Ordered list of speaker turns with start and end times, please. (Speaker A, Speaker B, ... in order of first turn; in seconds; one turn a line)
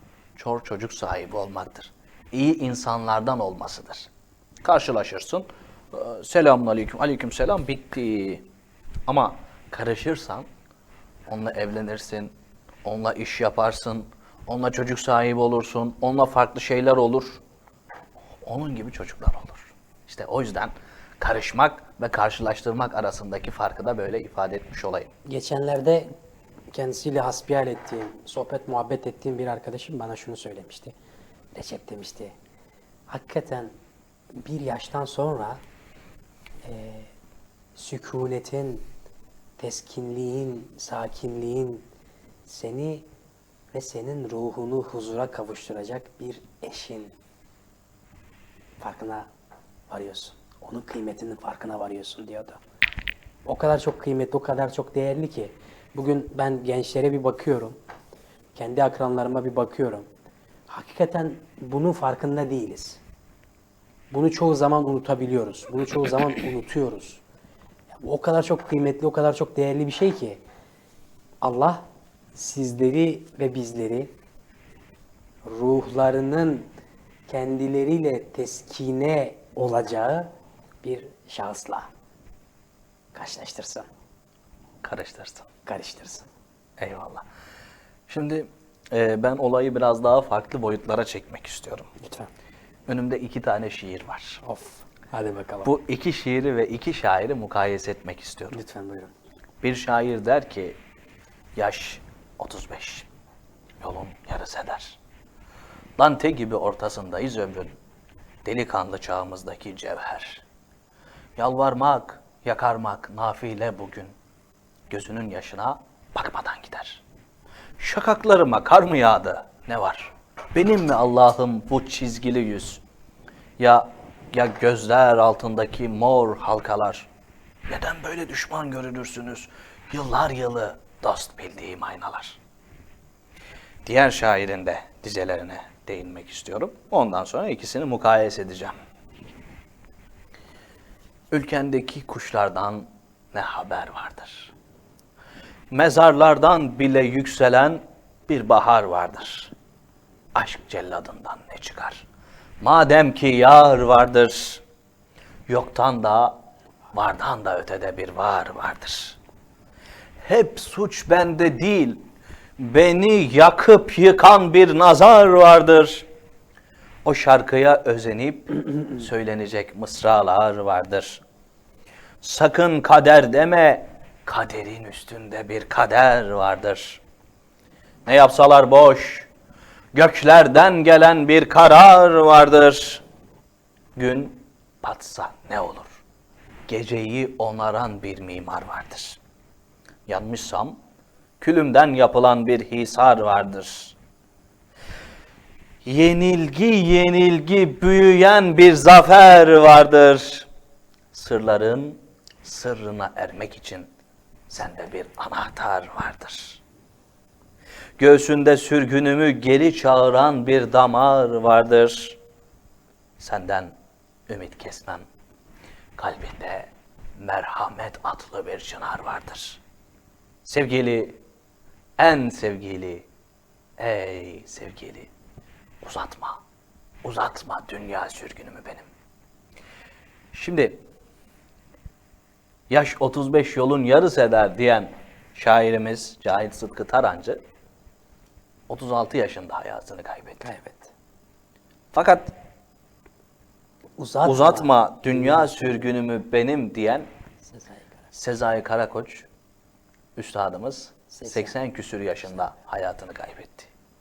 Speaker A: 0.4-4.1
Speaker A: 4.6-8.4
Speaker A: 9.1-10.5
Speaker A: 11.3-17.4
Speaker A: 18.4-25.1
Speaker B: 25.3-26.1
Speaker B: 26.7-30.9
Speaker B: 31.5-32.4
Speaker B: 33.1-33.7
Speaker B: 34.4-35.6
Speaker B: 36.6-37.1
Speaker B: 37.8-38.9
Speaker B: 39.6-41.9
Speaker B: 42.5-43.1
Speaker B: 43.7-47.1
Speaker B: 48.8-49.3
Speaker B: 49.9-52.6
Speaker B: 53.5-57.8
Speaker B: 58.5-60.1
Speaker B: 60.7-63.0
Speaker B: 64.1-67.2
Speaker B: 68.0-70.4
Speaker B: 71.4-71.8
Speaker B: 72.3-74.1
Speaker B: 75.5-76.7
Speaker B: 77.3-80.3
Speaker B: 80.8-81.9
Speaker B: 83.1-83.9
Speaker A: 84.8-85.5
Speaker B: 85.7-86.3
Speaker A: 86.8-87.2
Speaker A: 88.1-91.9
Speaker B: 92.0-92.3
Speaker A: 92.9-94.4
Speaker B: 94.4-95.7
Speaker A: 95.7-98.6
Speaker B: 98.5-99.1
Speaker A: 99.6-100.8
Speaker A: 101.6-103.1
Speaker A: 103.8-105.0
Speaker A: 106.0-107.7
Speaker A: 108.4-110.4
Speaker A: 111.4-114.1
Speaker A: 114.9-117.0
Speaker A: 117.8-122.8
Speaker A: 123.6-127.1
Speaker A: 127.7-132.4
Speaker A: 133.8-138.8
Speaker A: 141.3-144.5
Speaker A: 145.7-149.5
Speaker A: 150.3-152.1
Speaker A: 152.6-154.6
Speaker A: 155.5-156.4
Speaker A: 156.9-159.2
Speaker A: 160.2-162.0
Speaker A: 162.6-166.1
Speaker A: 167.1-171.2
Speaker A: 172.2-177.0
Speaker A: 178.1-179.3
Speaker A: 179.9-183.0
Speaker A: 184.0-186.0
Speaker A: 186.7-189.2
Speaker A: 190.1-190.8
Speaker A: 191.4-194.0
Speaker A: 195.8-200.5
Speaker A: 201.1-203.9
Speaker A: 204.5-206.6
Speaker A: 208.0-212.2
Speaker A: 213.2-213.8
Speaker A: 214.3-215.0
Speaker A: 216.0-219.6
Speaker A: 220.4-221.2
Speaker A: 222.0-223.1
Speaker A: 223.8-225.1
Speaker A: 225.8-226.4
Speaker A: 227.0-228.9
Speaker A: 230.3-230.8
Speaker A: 232.7-237.4
Speaker A: 238.7-240.5
Speaker B: 240.4-240.9
Speaker A: 241.9-242.3
Speaker B: 244.0-245.8
Speaker A: 244.2-247.1
Speaker B: 247.4-247.9
Speaker A: 248.1-249.3
Speaker A: 250.2-253.7
Speaker B: 251.1-251.6